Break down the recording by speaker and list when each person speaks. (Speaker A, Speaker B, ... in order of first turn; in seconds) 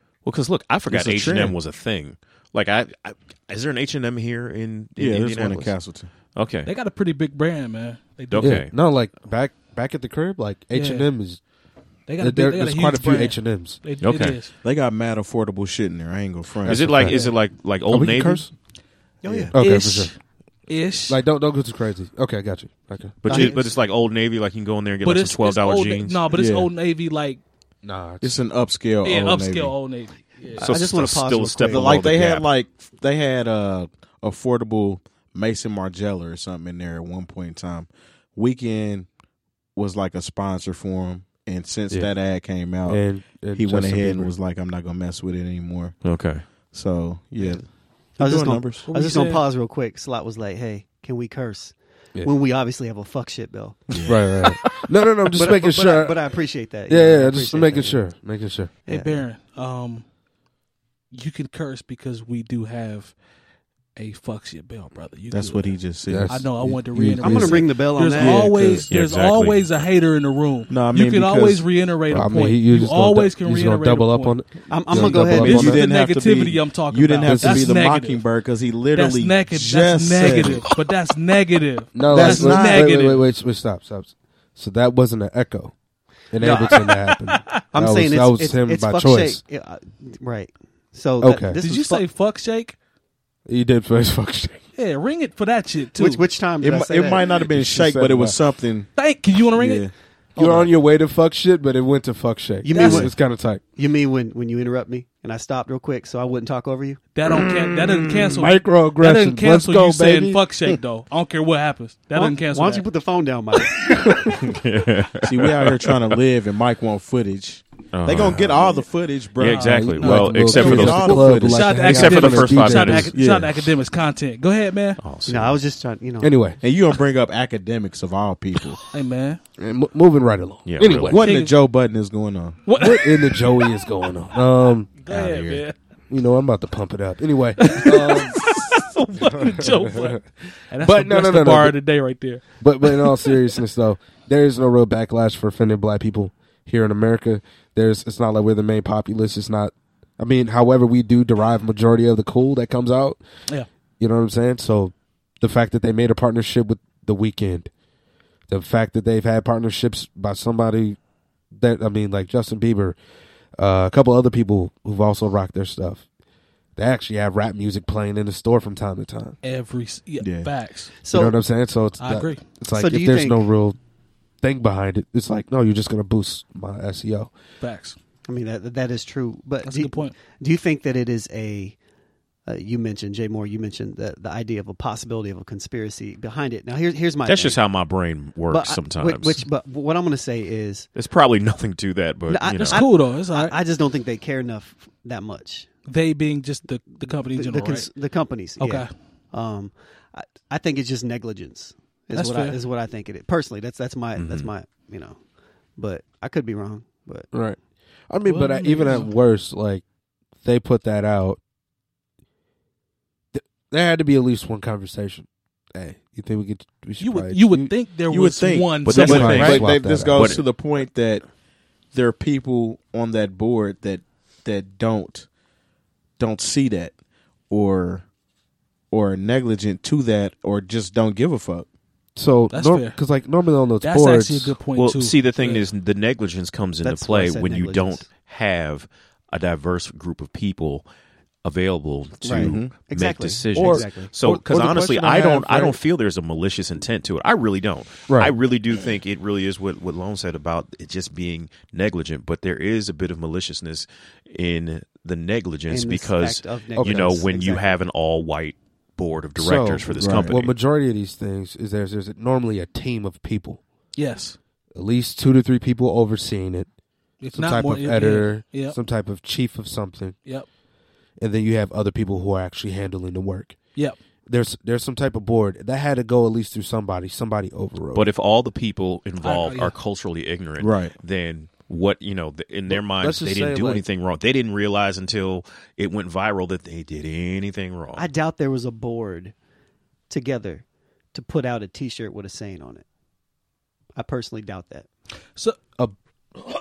Speaker A: 0.2-5.8, 6.3-6.7, 8.3-8.7, 14.0-14.4, 16.6-18.4, 23.2-26.2, 30.6-32.5, 46.0-46.5, 68.9-69.6, 114.4-116.2, 117.9-118.8, 119.4-123.1, 125.0-125.6, 130.7-131.2, 135.1-135.6, 187.2-189.4, 190.9-192.8, 204.2-204.5, 218.8-220.4, 234.8-240.9, 241.4-260.5, 277.9-288.1
Speaker B: 0.9-1.6, 5.0-6.1, 14.6-16.9, 19.2-19.5, 26.3-26.7, 28.2-29.7, 31.6-39.1, 39.7-46.0, 46.5-48.9, 53.9-54.2, 65.3-66.4, 68.2-68.5, 70.7-71.6, 74.9-80.7, 82.1-82.9, 96.6-98.9, 99.5-99.9, 115.2-122.3, 123.1-123.6, 126.6-128.8, 131.1-132.7, 135.2-135.6, 170.2-170.5, 218.1-221.3, 221.9-225.3, 226.2-226.9, 227.5-228.1, 228.9-231.7, 242.3-242.8, 260.0-260.3, 280.6-280.9
Speaker C: 6.7-8.6, 10.7-11.1, 12.1-14.5, 17.0-17.3, 19.6-20.1, 20.7-21.2, 25.0-27.4, 29.0-30.6, 48.9-49.4, 58.9-60.0, 61.1-63.1, 64.0-74.4, 75.0-78.2, 78.9-83.2, 86.7-87.6, 91.6-92.7, 94.8-96.2, 99.0-99.8, 102.7-103.1, 107.1-112.8, 119.4-125.0, 128.9-129.4, 131.1-131.5, 132.7-133.7, 135.0-135.7, 137.6-143.5, 169.4-170.9, 172.0-172.4, 177.6-178.0, 179.6-180.1, 192.6-193.5, 195.9-197.9, 198.6-198.9, 202.1-202.6, 208.2-209.1, 217.0-219.6, 232.5-233.0, 233.8-235.7, 263.9-264.4, 267.2-268.8, 279.2-279.7
Speaker D: 8.4-11.4, 12.2-13.8, 16.6-17.2, 17.9-18.5, 19.5-20.1, 21.1-23.4, 27.8-28.3, 42.8-44.3, 54.0-56.2, 56.9-58.7, 66.0-67.7, 68.4-68.8, 72.1-75.8, 77.2-77.7, 81.9-85.7, 86.3-89.4, 91.2-91.6, 93.5-94.6, 97.5-98.4, 100.3-103.6, 107.3-110.4, 119.7-123.1, 126.2-126.6, 129.6-131.2, 132.7-134.9, 136.1-138.4, 139.2-140.2, 140.8-141.8, 142.6-153.2, 154.0-157.7, 158.5-161.0, 161.5-163.0, 163.6-166.0, 166.8-169.4, 171.1-173.8, 174.4-177.3, 207.3-207.6, 208.1-209.8, 210.4-211.4, 213.3-217.7, 218.9-220.4, 232.2-234.6, 243.5-245.8, 248.1-248.3, 256.8-257.2, 259.4-263.6, 264.7-266.7, 267.3-270.1, 271.2-273.6, 274.3-278.1, 282.7-283.8
Speaker E: 19.2-19.5, 23.3-23.7, 30.6-32.1, 48.2-54.1, 55.3-58.0, 58.9-59.2, 67.2-68.5, 74.7-75.8, 86.4-86.9, 87.7-92.0, 96.0-97.3, 100.4-100.7, 102.6-103.1, 103.8-107.0, 112.1-114.3, 125.2-126.3, 171.0-171.3, 172.7-173.5, 178.3-181.8, 182.4-187.6, 188.5-190.9, 192.3-195.7, 197.3-205.2, 205.8-207.3, 236.8-238.1, 242.2-244.1, 255.7-257.6, 287.9-289.3, 290.1-292.8, 293.9-294.9